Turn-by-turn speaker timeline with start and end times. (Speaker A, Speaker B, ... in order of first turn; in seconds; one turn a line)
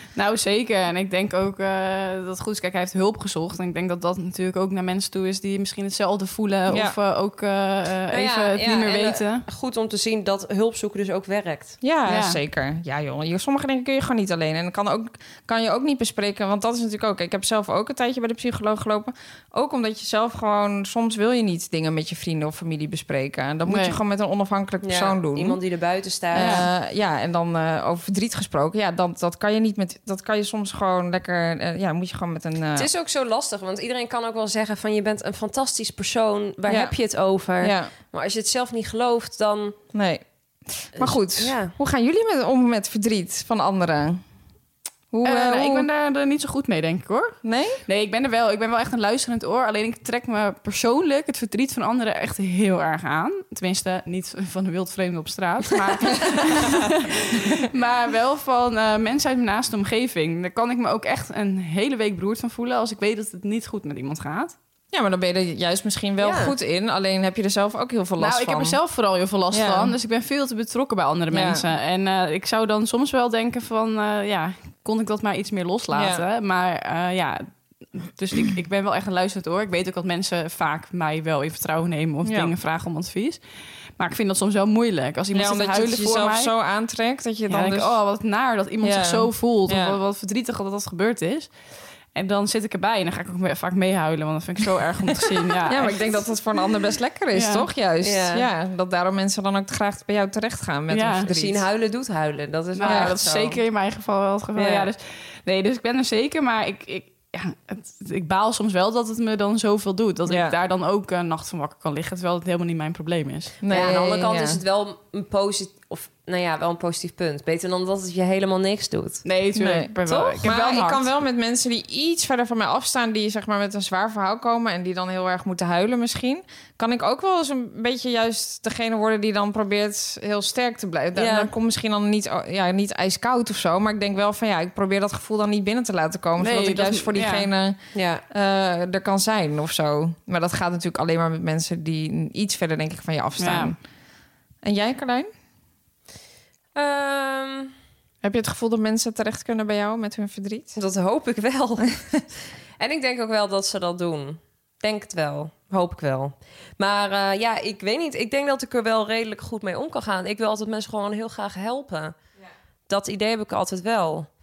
Speaker A: 0.1-9.4
Speaker B: 6.7-7.0
Speaker C: 8.1-11.8
Speaker B: 11.8-25.6
Speaker A: 12.1-12.4
Speaker A: 23.7-24.0
Speaker C: 24.8-26.6
Speaker B: 26.3-32.9
Speaker A: 26.4-26.6
Speaker C: 32.8-39.8
Speaker B: 36.7-36.9
Speaker B: 37.6-37.9
Speaker B: 39.9-40.2
Speaker B: 40.8-44.2
Speaker C: 41.0-41.7
Speaker B: 45.1-45.9
Speaker A: 45.2-64.5
Speaker B: 47.4-47.8
Speaker B: 64.9-68.8
Speaker C: 66.2-66.5
Speaker A: 68.2-83.4
Speaker B: 69.5-69.9
Speaker B: 71.3-71.6
Speaker B: 75.9-76.2
Speaker B: 82.2-82.5
Speaker A: 84.0-86.5
Speaker B: 85.3-88.0
Speaker A: 87.5-91.5
Speaker B: 88.8-90.0
Speaker A: 92.1-96.0
Speaker B: 95.7-101.6
Speaker A: 97.3-97.7
Speaker C: 98.0-98.5
Speaker A: 100.9-101.3
Speaker C: 101.3-103.6
Speaker A: 102.8-113.5
Speaker B: 102.8-103.1
Speaker C: 104.5-104.9
Speaker B: 110.3-110.5
Speaker B: 113.6-114.6
Speaker C: 113.7-119.2
Speaker A: 119.2-121.1
Speaker B: 119.5-119.9
Speaker C: 120.1-120.4
Speaker B: 120.4-137.8
Speaker C: 131.2-131.5
Speaker A: 136.4-137.5
Speaker C: 137.9-138.2
Speaker B: 138.3-143.8
Speaker A: 143.4-143.7
Speaker B: 144.6-145.3
Speaker C: 146.7-147.7
Speaker B: 148.2-150.8
Speaker C: 150.8-152.2
Speaker C: 152.8-162.2
Speaker C: 162.9-164.3